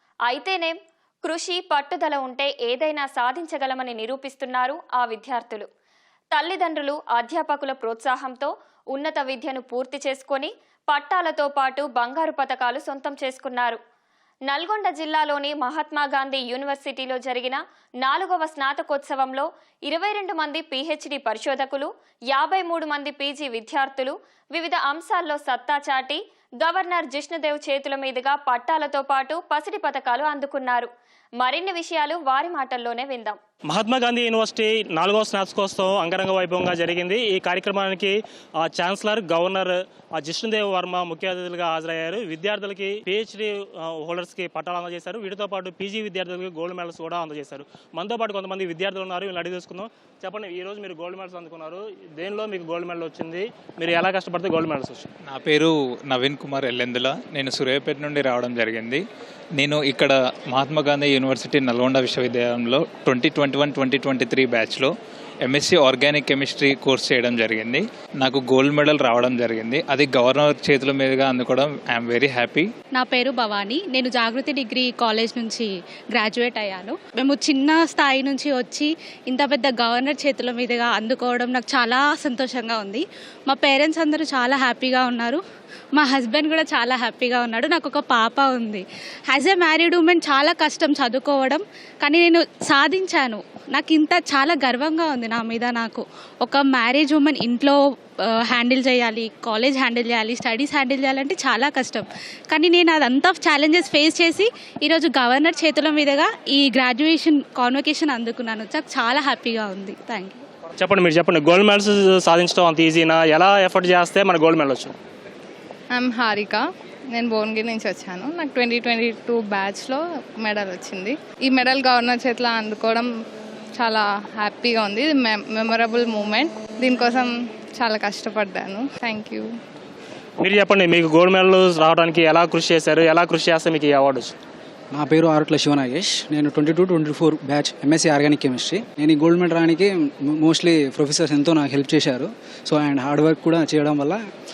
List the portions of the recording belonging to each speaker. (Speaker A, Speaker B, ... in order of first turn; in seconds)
Speaker A: 0.3-5.7, 6.3-13.8, 14.5-33.4
Speaker B: 33.7-55.1, 110.8-114.9, 130.4-134.3
Speaker C: 55.2-59.0, 59.6-64.9, 65.4-72.7
Speaker D: 73.0-83.0, 83.5-85.4, 86.1-88.8, 89.4-93.3, 94.0-96.0, 96.5-97.7, 98.6-102.0, 102.6-110.4
Speaker E: 115.9-123.1, 123.8-129.5
Speaker F: 134.9-144.2